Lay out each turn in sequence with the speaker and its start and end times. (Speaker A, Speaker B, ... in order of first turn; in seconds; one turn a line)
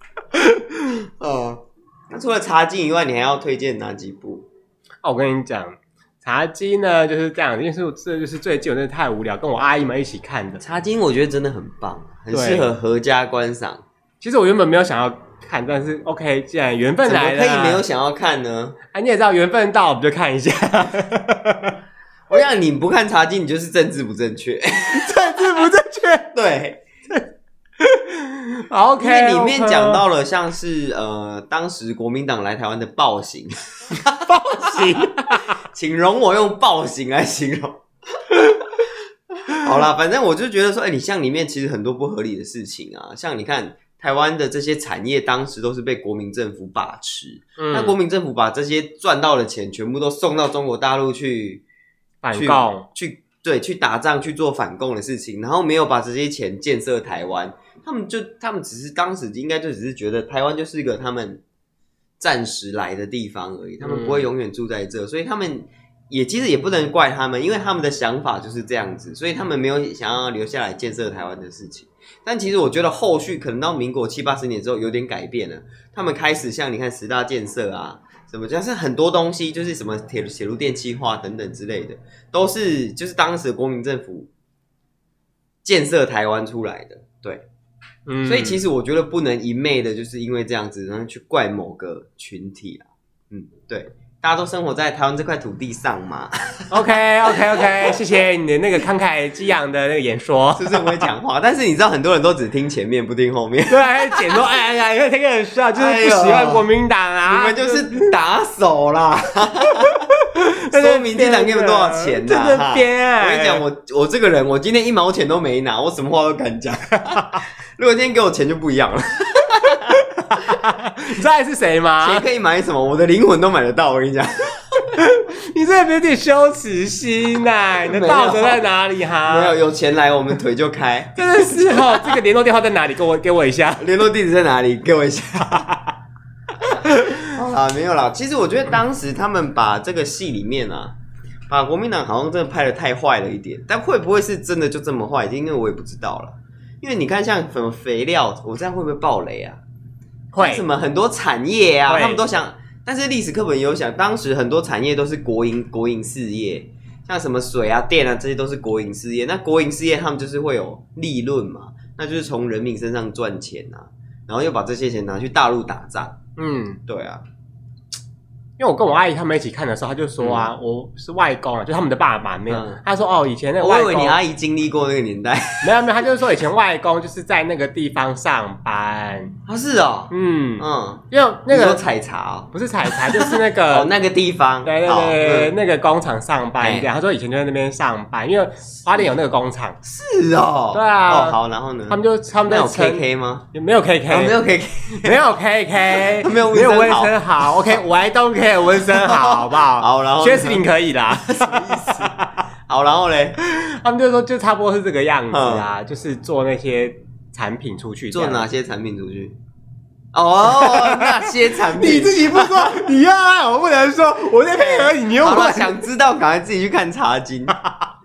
Speaker A: 0.3-1.1
Speaker B: 1.2-4.5
Speaker A: 5.0-10.6
Speaker B: 10.6-13.8
Speaker A: 12.3-12.7
Speaker A: 14.2-17.8
Speaker B: 17.0-18.8
Speaker A: 18.9-21.7
Speaker B: 22.3-25.6
Speaker A: 24.9-26.3
Speaker B: 26.3-26.8
Speaker A: 27.8-30.0
Speaker B: 29.0-37.8
Speaker A: 34.2-35.5
Speaker B: 39.5-51.6
Speaker A: 47.6-48.0
Speaker A: 52.2-52.9
Speaker B: 52.3-61.4
Speaker B: 62.2-84.3
Speaker A: 63.8-64.3
Speaker B: 85.6-87.4
Speaker A: 88.1-88.6
Speaker B: 88.2-98.0
Speaker A: 96.7-101.1
Speaker B: 100.5-104.4
Speaker A: 103.7-108.1
Speaker B: 105.7-106.7
Speaker B: 107.3-110.1
Speaker A: 109.8-113.6
Speaker B: 110.7-120.4
Speaker A: 117.1-117.4
Speaker A: 119.8-122.2
Speaker B: 122.0-124.9
Speaker A: 125.0-129.6
Speaker B: 127.8-128.6
Speaker B: 129.2-132.2
Speaker A: 131.1-133.9
Speaker B: 133.8-135.7
Speaker A: 135.5-135.9
Speaker B: 136.7-140.9
Speaker A: 136.8-137.3
Speaker B: 141.5-149.6
Speaker A: 150.3-150.6
Speaker B: 150.4-166.2
Speaker A: 151.9-152.2
Speaker A: 166.4-166.8
Speaker B: 166.9-167.2
Speaker A: 168.6-174.2
Speaker B: 170.2-170.5
Speaker B: 172.5-172.8
Speaker B: 173.6-175.7
Speaker A: 175.6-179.3
Speaker B: 179.5-185.5
Speaker A: 180.1-181.8
Speaker A: 182.5-183.9
Speaker A: 184.6-189.8
Speaker B: 186.6-186.9
Speaker B: 189.8-193.4
Speaker A: 190.7-191.4
Speaker A: 191.9-194.4
Speaker B: 194.1-195.2
Speaker A: 194.9-202.3
Speaker B: 196.0-197.8
Speaker B: 198.8-203.3
Speaker A: 203.4-208.4
Speaker B: 205.3-205.7
Speaker B: 208.1-209.3
Speaker B: 210.1-212.9
Speaker A: 210.4-215.8
Speaker B: 214.5-217.6